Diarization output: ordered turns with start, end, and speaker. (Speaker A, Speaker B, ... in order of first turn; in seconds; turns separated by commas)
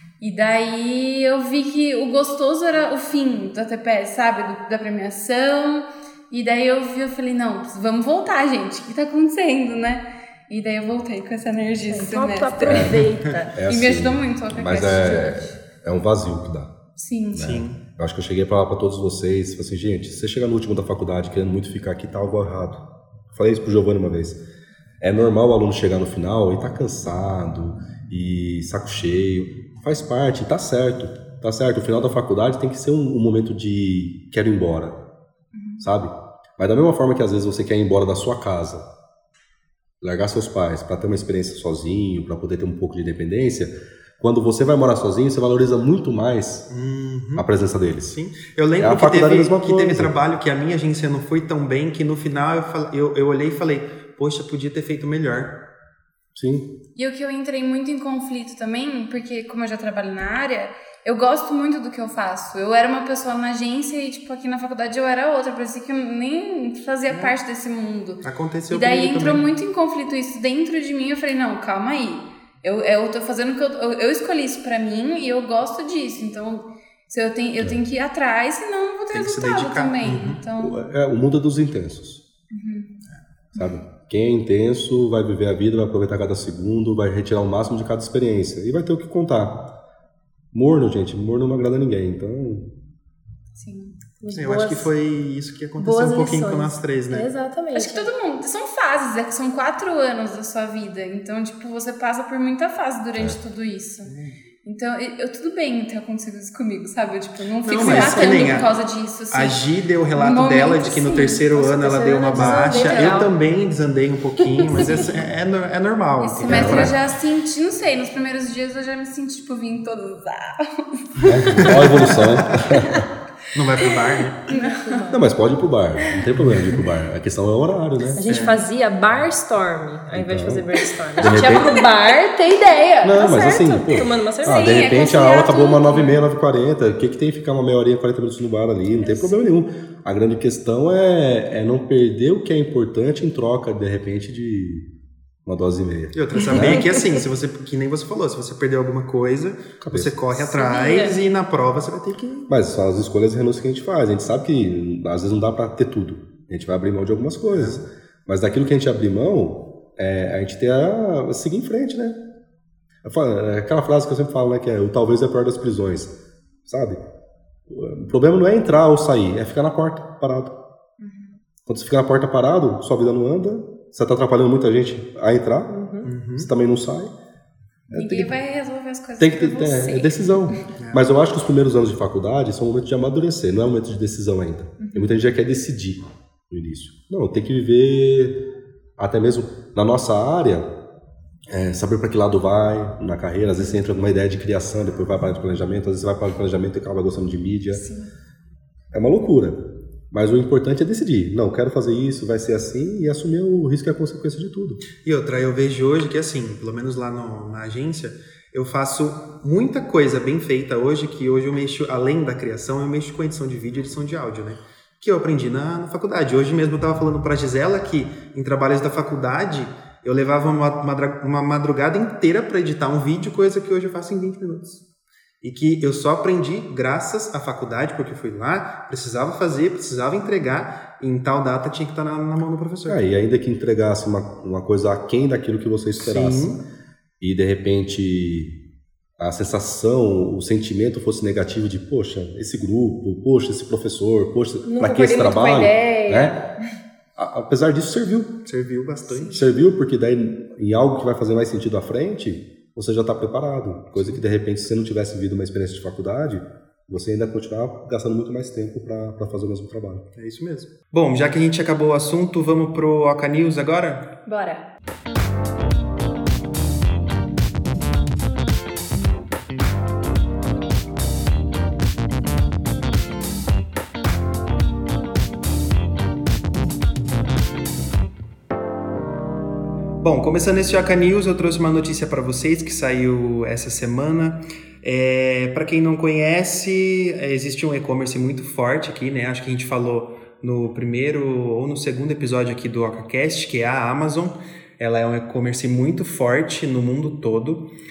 Speaker A: 0.2-13.0, Speaker B: 11.9-13.5, Speaker C: 12.7-16.7, Speaker A: 13.6-15.5, Speaker A: 16.9-17.6, Speaker C: 17.3-24.4, Speaker D: 17.4-17.8, Speaker C: 25.0-35.0, Speaker A: 35.5-35.9, Speaker C: 35.8-38.9, Speaker C: 40.0-46.6, Speaker D: 46.7-47.5, Speaker C: 47.4-48.2, Speaker D: 48.1-55.5, Speaker C: 48.8-50.1, Speaker C: 56.3-56.7, Speaker A: 57.0-80.8, Speaker D: 67.1-67.3, Speaker D: 68.2-69.4, Speaker D: 79.1-80.4, Speaker C: 80.6-82.2, Speaker A: 82.5-82.9, Speaker C: 83.5-89.5, Speaker C: 90.5-92.7, Speaker A: 93.5-94.0, Speaker B: 94.2-94.9, Speaker D: 94.3-97.3, Speaker B: 95.8-98.1, Speaker A: 97.7-104.1, Speaker D: 104.0-104.3, Speaker A: 104.6-109.6, Speaker D: 107.6-108.7, Speaker C: 107.8-108.2, Speaker B: 107.8-108.6, Speaker D: 109.3-117.0, Speaker A: 110.1-111.5, Speaker B: 111.5-113.3, Speaker A: 112.3-113.3, Speaker B: 114.6-115.0, Speaker A: 114.7-115.1, Speaker A: 116.2-123.0, Speaker C: 116.5-117.0, Speaker C: 121.2-123.1, Speaker D: 121.6-122.7, Speaker D: 123.5-124.4, Speaker A: 123.8-125.0, Speaker B: 124.5-125.3, Speaker C: 125.1-128.3, Speaker D: 126.6-126.8, Speaker B: 128.2-134.8, Speaker D: 128.3-128.6, Speaker C: 130.1-130.6, Speaker C: 131.2-131.8, Speaker C: 133.0-144.8, Speaker A: 134.4-136.2, Speaker B: 139.0-139.3, Speaker C: 145.4-146.9, Speaker D: 146.1-152.5, Speaker B: 146.5-147.2, Speaker C: 149.8-150.1, Speaker B: 150.3-151.2, Speaker C: 152.5-162.2, Speaker D: 157.5-157.8, Speaker C: 163.0-166.1, Speaker C: 166.7-167.0, Speaker C: 167.7-170.5, Speaker A: 171.0-171.4, Speaker C: 171.7-175.7, Speaker B: 175.7-176.1, Speaker D: 176.0-176.5, Speaker C: 176.3-177.1, Speaker C: 177.9-178.4, Speaker A: 177.9-180.5, Speaker C: 179.2-188.3, Speaker D: 180.8-181.0, Speaker A: 184.8-185.1, Speaker C: 189.0-190.7, Speaker C: 191.5-197.8, Speaker A: 197.7-198.1, Speaker C: 198.9-199.6, Speaker C: 200.1-204.8, Speaker D: 205.0-224.8, Speaker D: 225.4-233.0, Speaker C: 232.8-236.6, Speaker D: 236.0-236.6, Speaker C: 237.2-238.5, Speaker C: 239.2-246.4, Speaker B: 244.7-246.4, Speaker C: 247.2-248.3, Speaker D: 248.4-249.5, Speaker C: 249.2-260.0, Speaker D: 260.1-264.1, Speaker A: 264.2-264.7, Speaker D: 280.0-297.6